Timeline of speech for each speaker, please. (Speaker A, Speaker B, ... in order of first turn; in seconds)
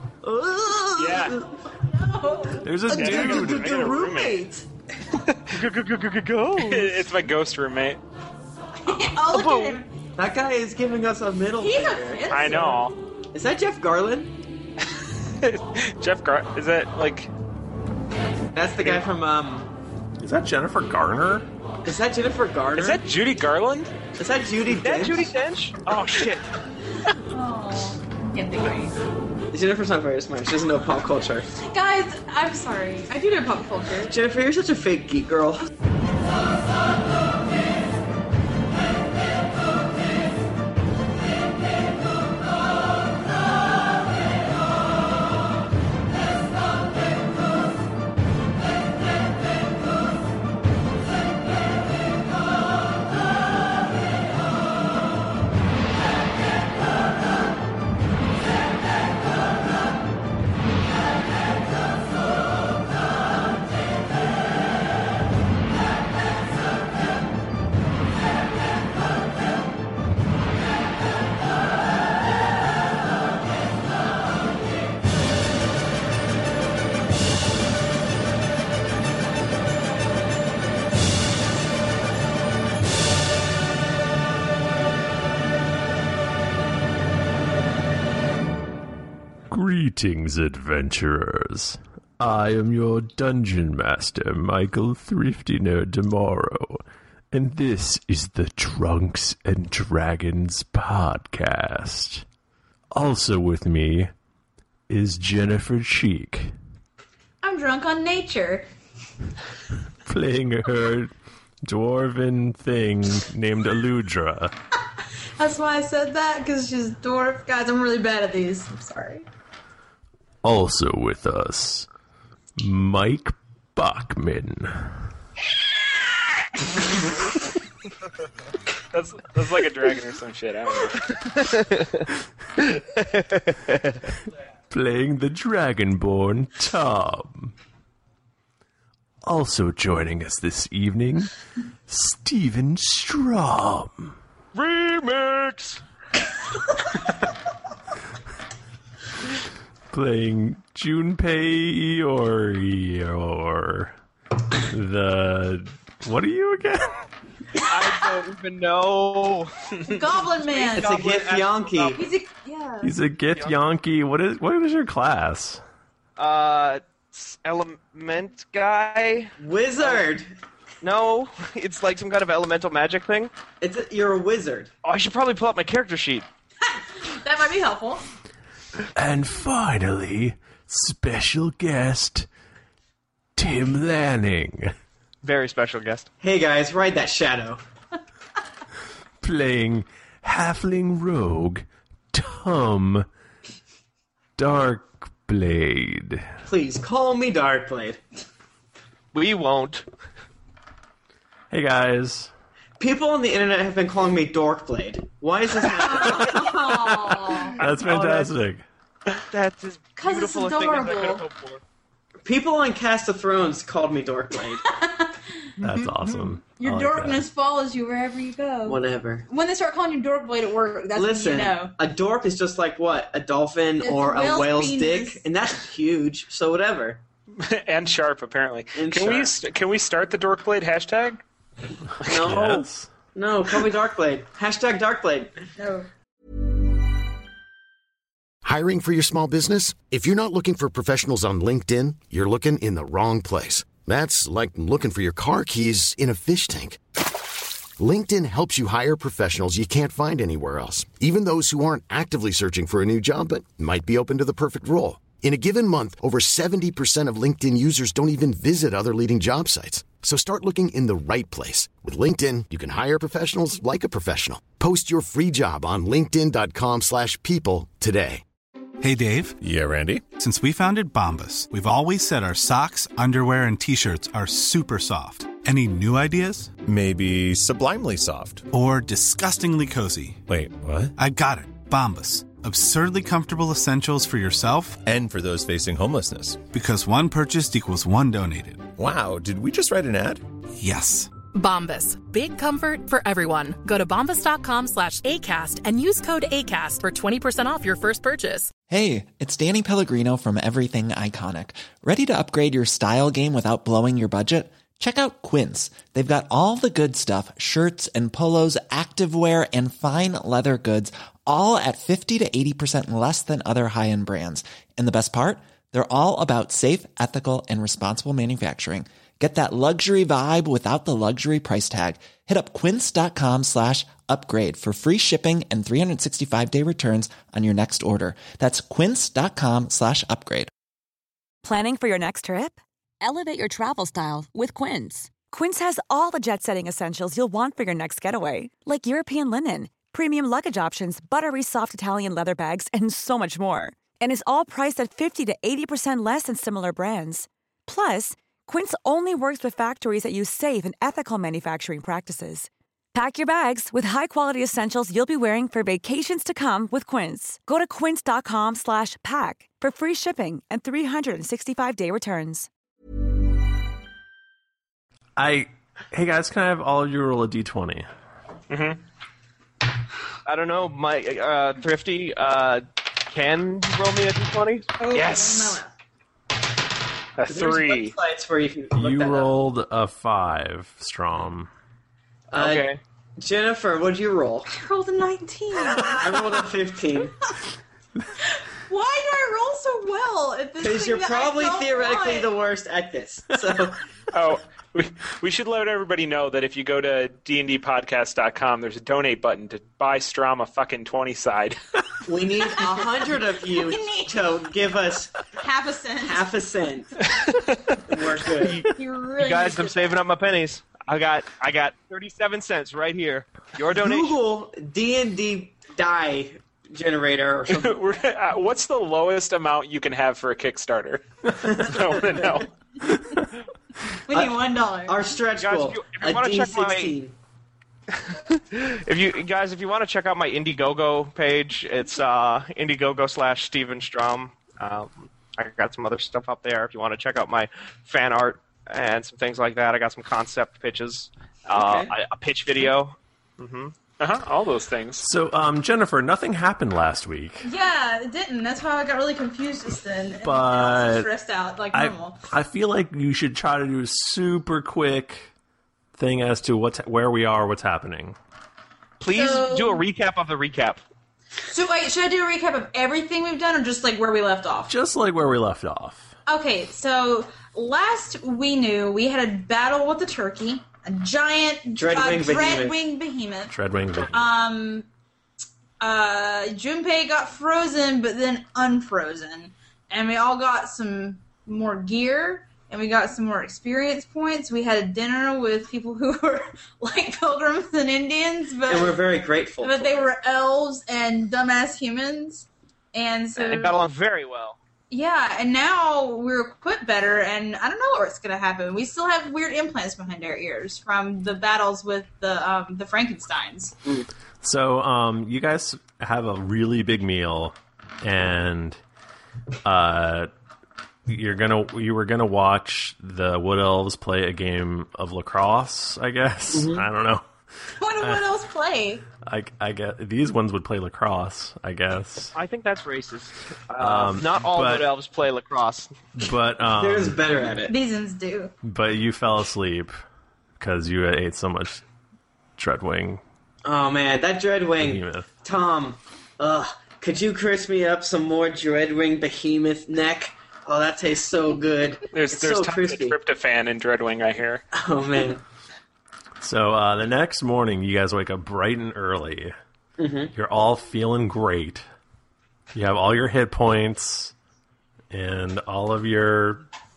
Speaker A: 0.2-1.4, 2.9-4.7, 10.2-12.7, 13.3-14.3, 18.5-19.7, 21.8-23.0, 24.2-25.3, 29.5-31.5, 34.1-35.6, 160.7-162.0, 169.4-170.3, 173.6-174.7, 186.2-187.6, 196.4-198.0, 202.8-206.8, 212.2-214.6, 218.6-219.2, 220.9-227.0, 228.7-229.3, 232.0-232.6, 233.1-235.4, 377.3-379.3, 382.3-384.5, 385.6-387.1, 390.6-393.8, 402.1-405.1, 406.0-407.0, 407.9-408.7, 413.8-417.8, 421.4-422.4, 424.9-427.1, 441.5-441.9, 471.8-472.8, 488.7-490.1, 516.5-516.8, 526.8-527.7, 533.6-543.2, 544.7-545.4, 550.0-550.3
Speaker B: 0.9-1.4, 2.9-4.4, 6.6-8.0, 12.2-12.9, 15.4-17.3, 22.7-23.9, 25.9-26.4, 128.9-131.1, 227.4-231.2, 368.5-368.8, 374.9-375.6, 377.2-377.9, 394.1-401.6, 417.5-422.5, 444.0-445.0, 542.1-544.6
Speaker C: 1.9-2.7, 8.8-9.8, 11.6-12.8, 27.3-28.9, 31.6-34.1, 107.4-108.7, 115.4-119.2, 159.8-161.0, 161.9-162.9, 177.0-178.0, 205.8-207.5, 210.0-211.2, 214.7-215.1, 216.6-221.7, 223.8-225.2, 235.6-235.9, 374.8-375.7, 384.5-386.4, 388.2-392.3, 403.6-404.1, 405.4-406.2, 408.6-410.0, 424.1-425.0, 447.4-452.2, 459.1-459.8, 461.5-464.7, 466.3-473.5, 474.0-474.9, 475.8-489.0, 489.6-493.8, 494.9-503.8, 517.8-519.0, 527.7-528.5
Speaker D: 2.6-3.7, 20.2-21.5, 89.5-102.2, 102.9-104.1, 104.9-106.5, 110.0-111.1, 111.6-114.5, 120.4-121.9, 122.6-125.0, 134.7-137.5, 139.2-141.3, 141.9-144.1, 149.9-153.9, 154.7-157.1, 162.8-165.6, 178.9-182.3, 183.3-184.7, 189.2-193.1, 194.4-196.3, 201.5-202.3, 207.6-208.6, 215.6-217.2, 232.2-232.9, 365.2-367.9, 378.8-381.5, 445.0-447.5, 450.2-451.1, 451.7-455.3, 455.9-458.1, 464.7-466.1, 473.5-474.3, 504.4-508.8, 509.6-510.3, 511.1-517.2, 519.2-522.3, 523.8-524.9, 526.1-527.2, 528.6-529.9, 530.6-531.8, 532.6-533.2, 534.8-535.2, 546.4-549.5, 550.3-551.8, 552.7-554.3, 555.1-556.6
Speaker E: 5.5-6.9, 9.3-9.8, 24.7-26.4, 131.4-132.0, 144.5-145.8, 157.6-160.0, 160.5-162.0, 166.2-170.0, 170.8-173.3, 174.8-176.2, 185.2-186.1, 199.1-199.8, 207.9-208.1, 209.3-211.6, 370.2-374.7, 382.4-382.8, 408.4-414.1, 425.4-426.9, 428.1-443.7, 459.0-460.8, 493.4-494.6, 522.3-525.9
Speaker F: 238.4-246.8, 247.8-268.2
Speaker G: 268.8-269.4, 270.1-276.6, 278.5-280.2, 281.0-284.8, 286.4-288.7, 290.6-291.1
Speaker H: 269.4-270.0, 276.6-278.4, 280.3-280.9, 284.8-286.4, 288.8-290.2
Speaker I: 291.3-298.5
Speaker J: 298.7-330.5
Speaker K: 331.4-362.5